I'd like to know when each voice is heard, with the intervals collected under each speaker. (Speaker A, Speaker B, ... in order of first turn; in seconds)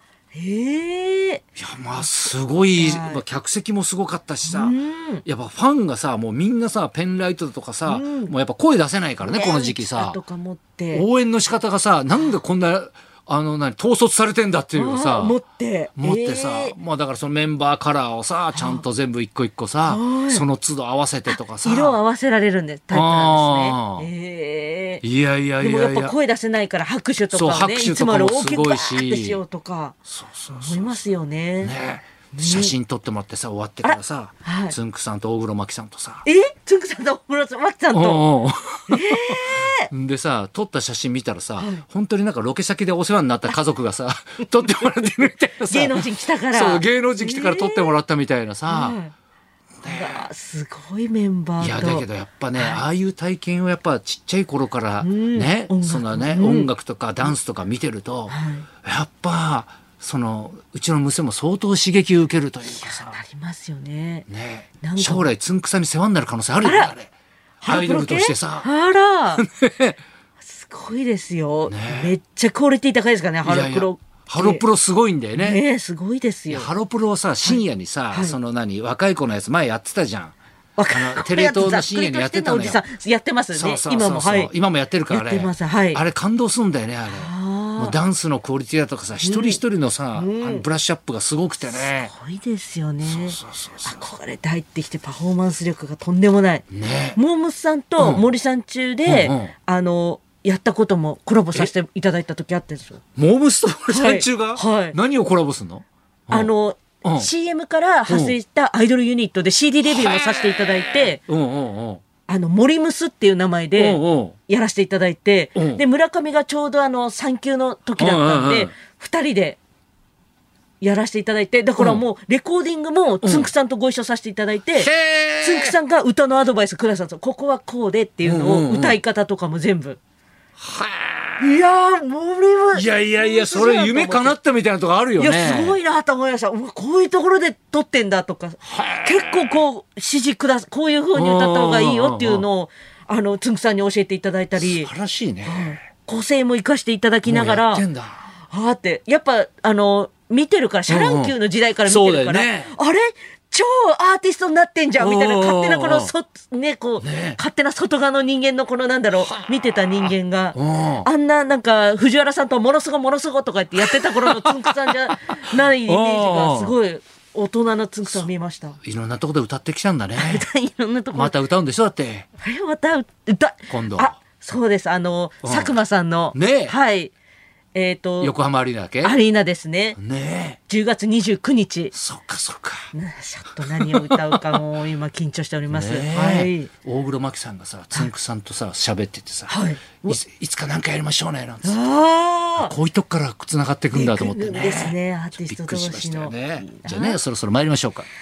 Speaker A: 0.3-1.4, 2.8-3.2, 4.5-5.2, 7.9-8.3, 9.2-11.1, 14.7-16.8, 18.5-18.8, 19.9-20.5, 21.3-25.0, 25.6-30.0, 30.5-31.7, 32.3-32.8, 33.8-34.8, 36.2-38.2, 38.9-39.9, 41.6-41.9, 45.7-48.0, 48.7-49.1, 49.9-52.8, 55.0-56.7, 58.3-58.7, 62.7-64.3, 64.8-65.3, 66.6-66.9, 67.6-69.4, 70.4-74.6, 75.4-76.7, 77.4-78.4, 80.8-84.5, 85.1-86.0, 87.1-88.0, 89.2-89.6, 90.2-90.7, 91.7-103.0, 103.9-105.0, 106.3-111.2, 112.3-119.6, 120.8-130.0, 131.4-134.4, 135.2-144.9, 145.4-147.8, 148.5-168.8, 170.2-171.4, 172.4-177.1, 177.7-178.3, 179.0-180.0, 180.7-181.9, 182.9-186.7, 189.5-190.2, 191.6-192.7, 193.9-197.2
Speaker B: 1.6-10.2, 10.9-15.4, 16.0-22.0, 22.9-24.1, 25.0-26.1, 27.3-29.4, 30.1-31.0, 31.6-36.3, 37.9-49.0, 49.8-50.3, 51.6-63.2, 64.3-67.1, 67.6-68.7, 69.4-70.0, 71.7-72.1, 73.5-75.6, 76.5-80.3, 80.9-82.8, 83.5-92.1, 93.0-94.1, 96.7-97.2, 98.0-98.3, 99.0-99.5, 103.2-106.5, 107.0-107.3, 108.1-108.3, 109.9-110.2, 111.2-112.0, 113.8-114.4, 115.6-115.8, 118.0-118.7, 121.8-122.0, 123.2-123.5, 124.8-125.8, 128.2-129.0, 130.6-131.5, 132.7-135.8, 138.7-139.6, 141.1-142.5, 144.6-145.8, 147.2-148.2, 150.9-151.3, 151.8-152.7, 155.0-156.1, 157.0-157.4, 160.6-161.1, 163.8-164.7, 165.5-166.8, 168.8-170.5, 171.1-172.3, 173.7-174.2, 175.4-175.8, 176.3-176.8, 178.2-179.2, 180.0-180.6, 181.9-182.9, 183.7-184.4, 185.7-191.8, 192.6-198.1